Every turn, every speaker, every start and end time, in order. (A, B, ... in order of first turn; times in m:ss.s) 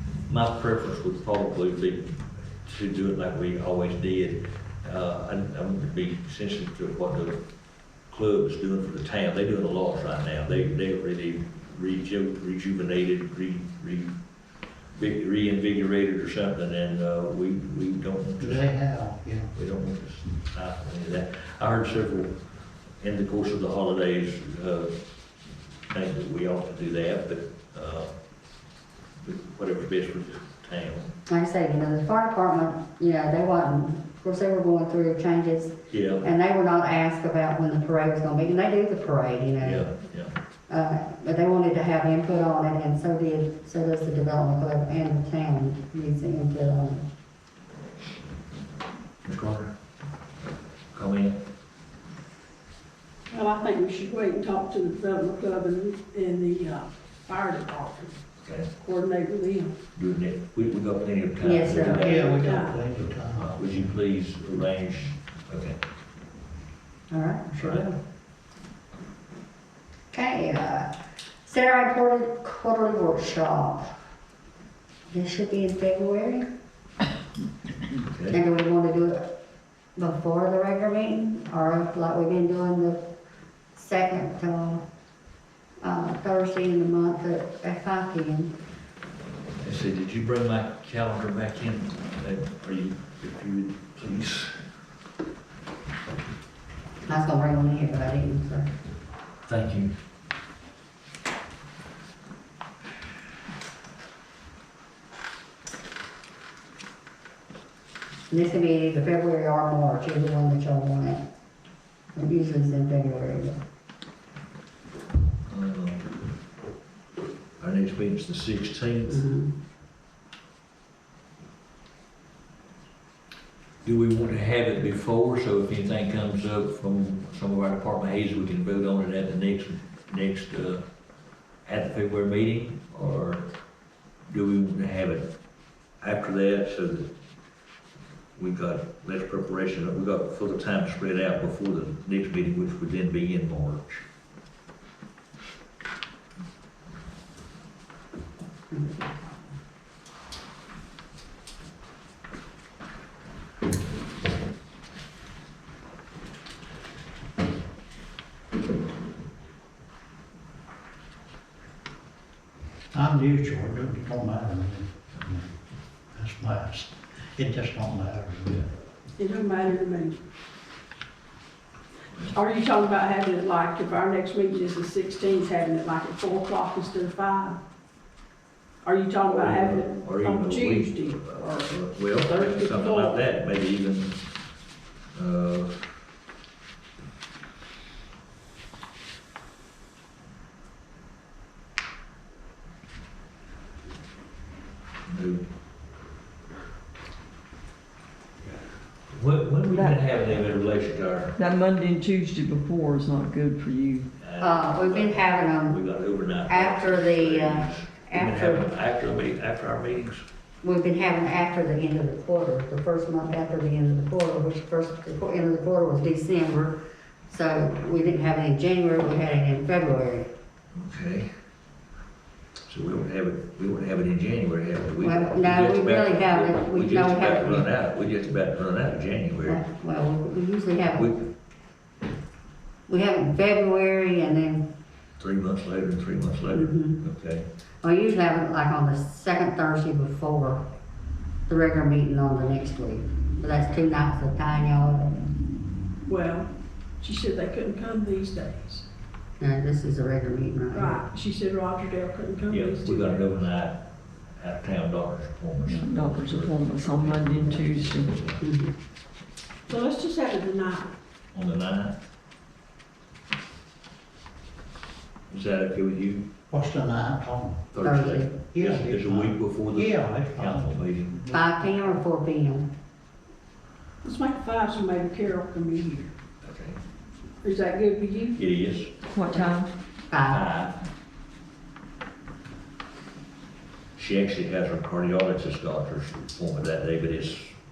0:00.3-0:07.4 A
0:08.1-0:14.2 A
0:15.0-0:18.7 A
0:18.4-0:19.5 B
0:19.5-0:22.4 A
0:23.0-0:25.0 A
0:25.9-0:28.1 A
0:29.2-0:31.1 A
0:31.3-0:39.9 C
0:35.9-0:36.3 A
0:39.6-0:40.3 A
0:40.7-0:47.0 C
0:49.2-0:49.7 A
0:50.9-0:51.4 A
0:53.3-0:58.1 D
0:58.4-0:58.7 A
0:58.8-0:59.7 D
1:00.0-1:05.8 A
1:01.4-1:02.3 C
1:01.9-1:03.9 B
1:02.1-1:02.8 D
1:07.1-1:08.0 C
1:07.6-1:07.9 A
1:10.1-1:10.9 C
1:11.4-1:13.9 C
1:15.1-1:16.5 C
1:18.0-1:18.4 A
1:18.3-1:19.3 C
1:20.0-1:23.1 C
1:23.8-1:24.9 C
1:25.8-1:28.6 C
1:29.6-1:34.7 A
1:37.1-1:38.7 C
1:39.4-1:39.9 A
1:48.3-1:51.2 C
1:52.1-1:53.6 C
1:55.5-1:56.1 A
1:57.6-1:59.2 A
1:59.1-1:59.5 C
2:03.8-2:10.8 A
2:11.6-2:13.4 A
2:14.3-2:15.3 A
2:16.0-2:17.1 A
2:18.4-2:24.0 A
2:28.7-2:29.1 C
2:42.9-2:45.5 B
2:46.1-2:48.7 B
2:49.2-2:50.2 D
2:52.3-2:57.6 D
2:58.8-3:03.2 D
2:59.3-3:04.2 A
3:05.1-3:06.0 A
3:15.1-3:15.4 A
3:19.1-3:21.4 A
3:19.7-3:20.0 E
3:21.4-3:24.1 E
3:24.2-3:30.2 A
3:24.4-3:25.8 C
3:26.5-3:28.7 C
3:30.6-3:40.3 C
3:40.7-3:41.3 A
3:42.7-3:49.6 A
3:45.0-3:47.7 C
3:49.5-3:51.1 C
3:51.0-3:51.3 A
3:52.9-3:54.7 C
3:55.2-3:57.5 A
3:56.5-3:57.0 C
3:57.8-4:00.6 C
4:01.5-4:05.2 C
4:06.1-4:08.9 D
4:09.4-4:11.0 C
4:10.7-4:13.4 D
4:12.5-4:18.4 A
4:15.6-4:18.2 E
4:18.4-4:18.7 C
4:19.7-4:20.9 D
4:21.3-4:22.0 A
4:25.3-4:26.2 A
4:26.5-4:27.7 B
4:27.7-4:31.2 A
4:27.8-4:28.4 C
4:28.5-4:31.7 B
4:31.3-4:32.7 C
4:34.0-4:36.1 D
4:36.4-4:36.8 A
4:37.4-4:38.4 D
4:38.4-4:38.9 A
4:39.1-4:39.7 E
4:40.1-4:40.4 C
4:40.2-4:40.8 A
4:43.9-4:47.6 A